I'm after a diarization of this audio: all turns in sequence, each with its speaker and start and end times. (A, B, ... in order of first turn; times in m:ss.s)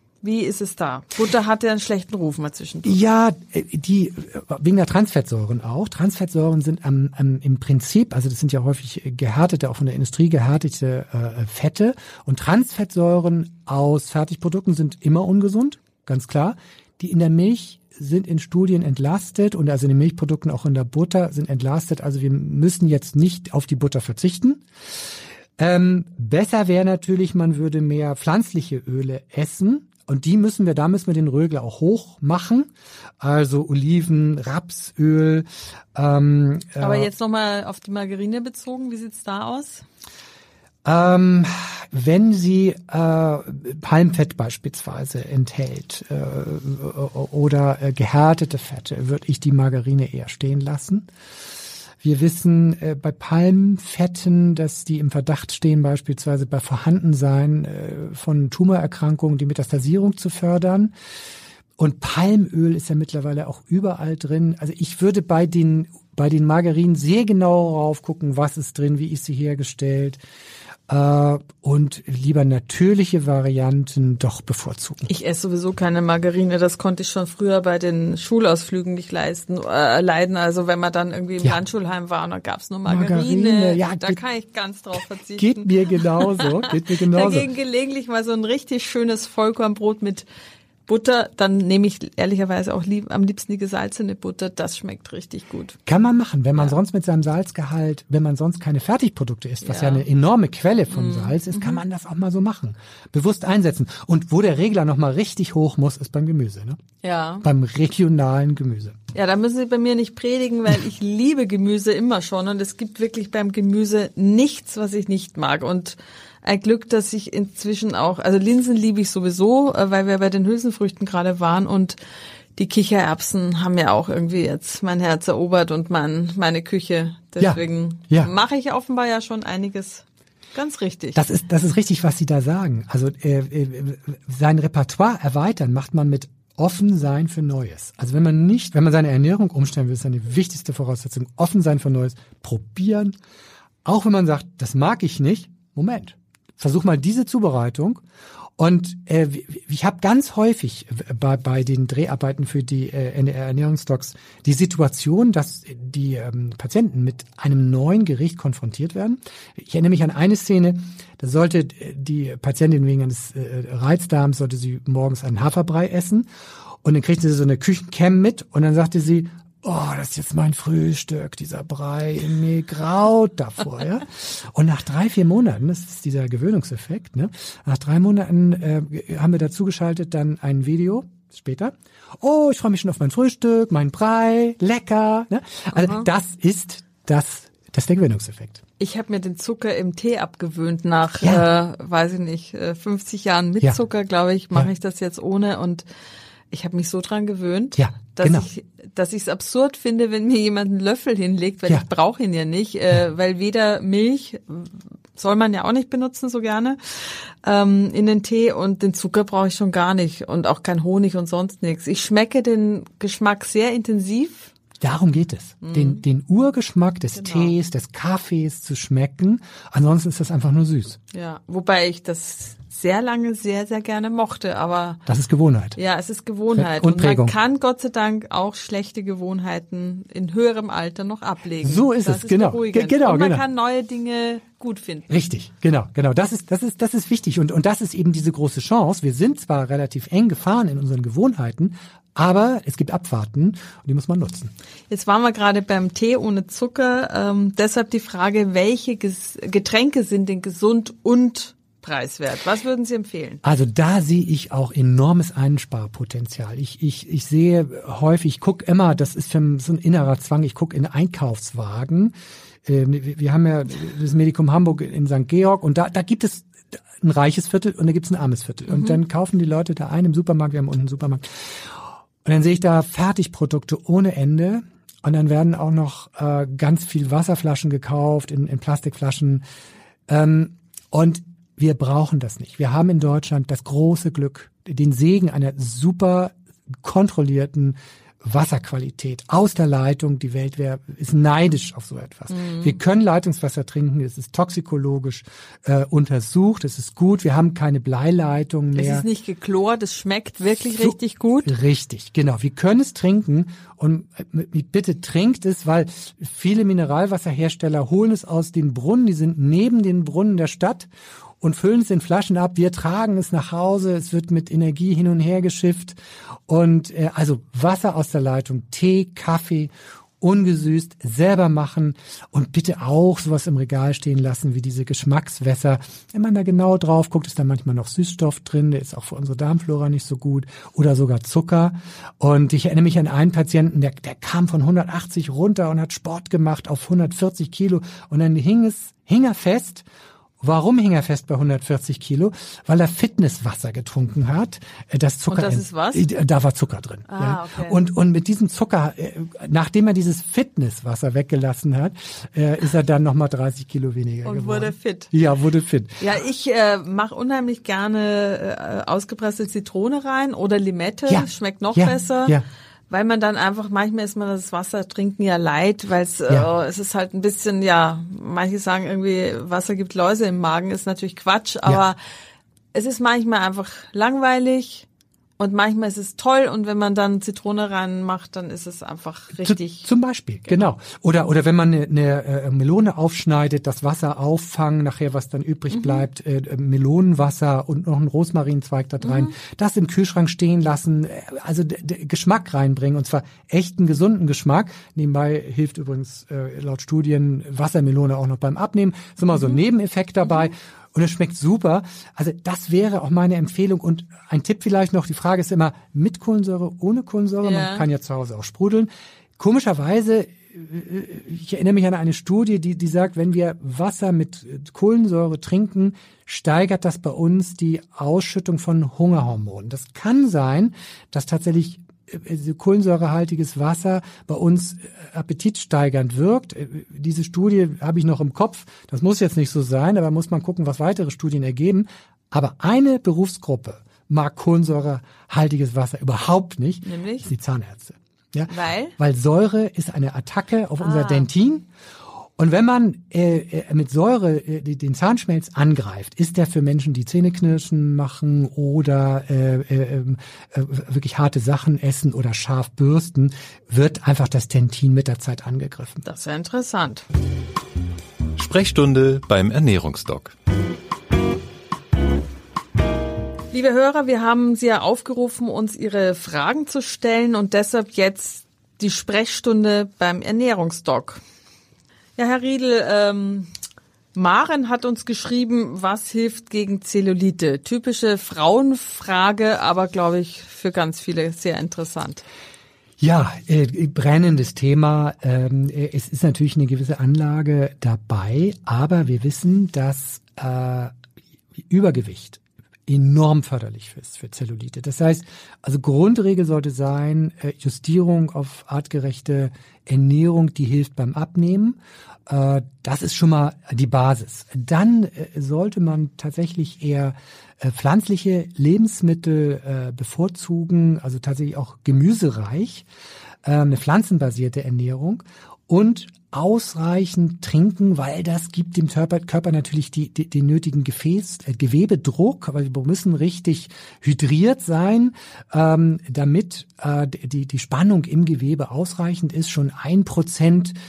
0:00.2-0:03.0 A
0:02.8-0:24.6 B
0:25.6-0:32.7 B
0:33.2-0:37.1 B
0:36.8-0:39.8 A
0:40.8-0:51.1 B
0:52.0-1:00.9 B
1:01.8-1:10.2 B
1:10.9-1:15.1 B
1:15.1-1:30.3 A
1:22.9-1:24.2 B
1:25.4-1:27.5 B
1:30.9-1:35.8 A
1:35.9-1:46.8 B
1:39.6-1:40.1 A
1:40.9-1:41.8 A
1:47.0-1:47.4 A
1:47.4-1:49.0 B
1:49.1-2:02.0 A
2:02.6-2:11.2 A
2:07.4-2:08.3 B
2:11.1-2:23.1 B
2:23.8-2:28.0 B
2:28.6-2:46.3 B
2:46.8-3:08.6 B
3:05.8-3:06.0 A
3:08.8-3:15.8 A
3:11.2-3:11.5 B
3:16.5-3:34.5 A
3:17.8-3:18.5 B
3:34.8-3:41.0 B
3:35.6-3:36.0 A
3:37.2-3:37.6 A
3:41.1-3:45.0 A
3:45.1-3:45.8 B
3:45.8-3:55.2 A
3:46.6-3:47.4 B
3:51.6-3:53.4 B
3:55.1-4:04.5 B
4:04.9-4:13.4 A
4:13.4-4:22.1 B
4:22.6-4:39.4 B
4:28.7-4:29.0 A
4:40.1-4:59.1 B
4:52.3-4:52.8 A
4:58.8-5:01.5 A
5:00.8-5:10.9 B
5:11.4-5:16.0 B
5:16.5-5:39.8 B
5:40.4-5:56.1 B
5:45.3-5:46.1 A
5:47.1-5:47.8 A
5:54.2-5:55.1 A
5:56.0-6:02.4 A
6:01.1-6:02.4 B
6:02.9-6:12.0 A
6:12.7-6:14.9 A
6:15.4-6:19.9 A
6:19.4-7:21.7 B
6:25.7-6:26.1 A
6:29.0-6:29.3 A
6:39.3-6:39.6 A
6:47.4-6:47.8 A
7:16.8-7:17.3 A
7:18.5-7:19.0 A
7:20.8-7:21.3 A
7:22.4-7:36.0 B
7:36.0-7:37.0 A
7:38.4-7:40.3 C
7:43.5-7:51.2 A
7:52.2-7:53.5 A
7:54.1-8:02.2 A
8:03.0-8:10.9 B
8:11.7-8:32.9 B
8:33.4-8:50.8 B